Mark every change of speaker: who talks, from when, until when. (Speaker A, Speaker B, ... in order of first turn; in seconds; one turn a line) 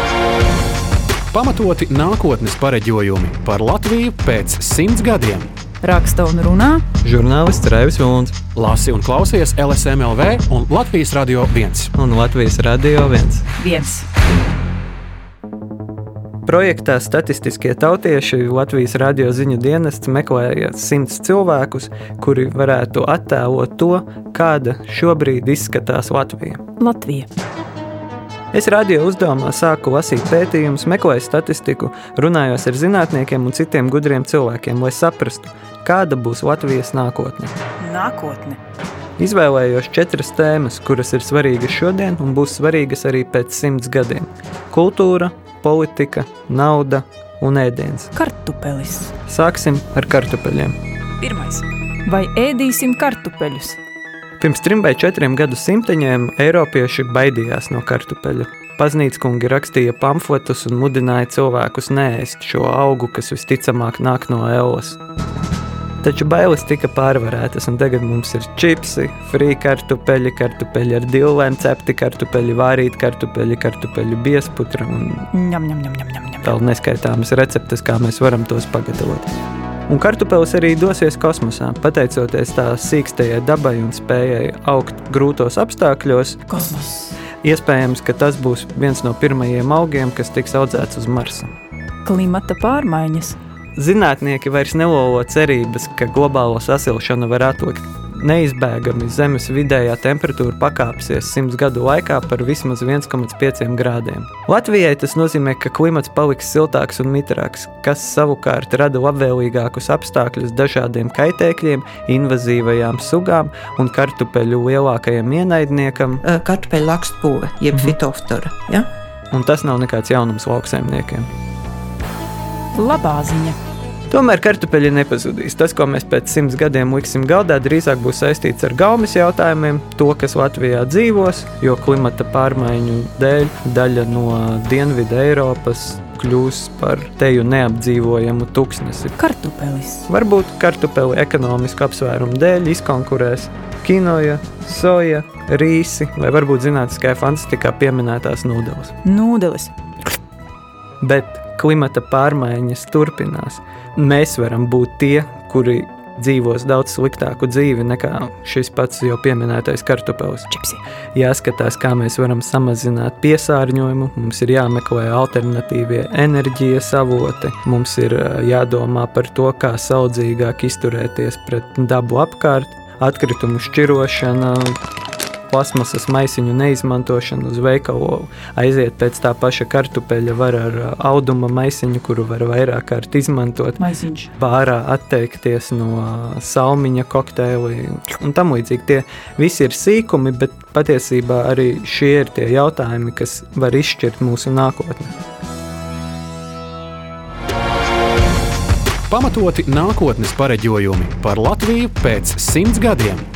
Speaker A: 1.3-5.5
Speaker B: 5.8-6.8
Speaker C: 7.0-8.3
Speaker A: 8.5-11.9
Speaker C: 11.9-13.4
Speaker B: 13.6-14.1
Speaker C: 16.4-26.6
Speaker B: 26.8-27.3
Speaker C: 28.5-37.5
Speaker B: 37.8-38.6
Speaker C: 39.2-48.1
Speaker B: 48.1-49.1
Speaker C: 49.3-50.8
Speaker B: 51.2-53.8
Speaker C: 54.4-65.0
Speaker C: 66.0-75.3
Speaker B: 75.3-76.5
Speaker C: 76.4-79.3
Speaker C: 79.9-86.4
Speaker B: 86.5-87.2
Speaker C: 87.4-91.5
Speaker B: 92.0-93.3
Speaker C: 93.8-116.2
Speaker D: 116.2-118.9
Speaker C: 119.3-121.3
Speaker B: 122.7-123.6
Speaker C: 124.1-139.2
Speaker B: 139.2-140.1
Speaker C: 140.1-148.9
Speaker B: 149.0-150.2
Speaker C: 151.0-160.5
Speaker B: 160.5-160.8
Speaker C: 161.1-174.8
Speaker C: 175.5-183.8
Speaker B: 183.8-184.3
Speaker C: 184.4-195.1
Speaker A: 199.1-203.2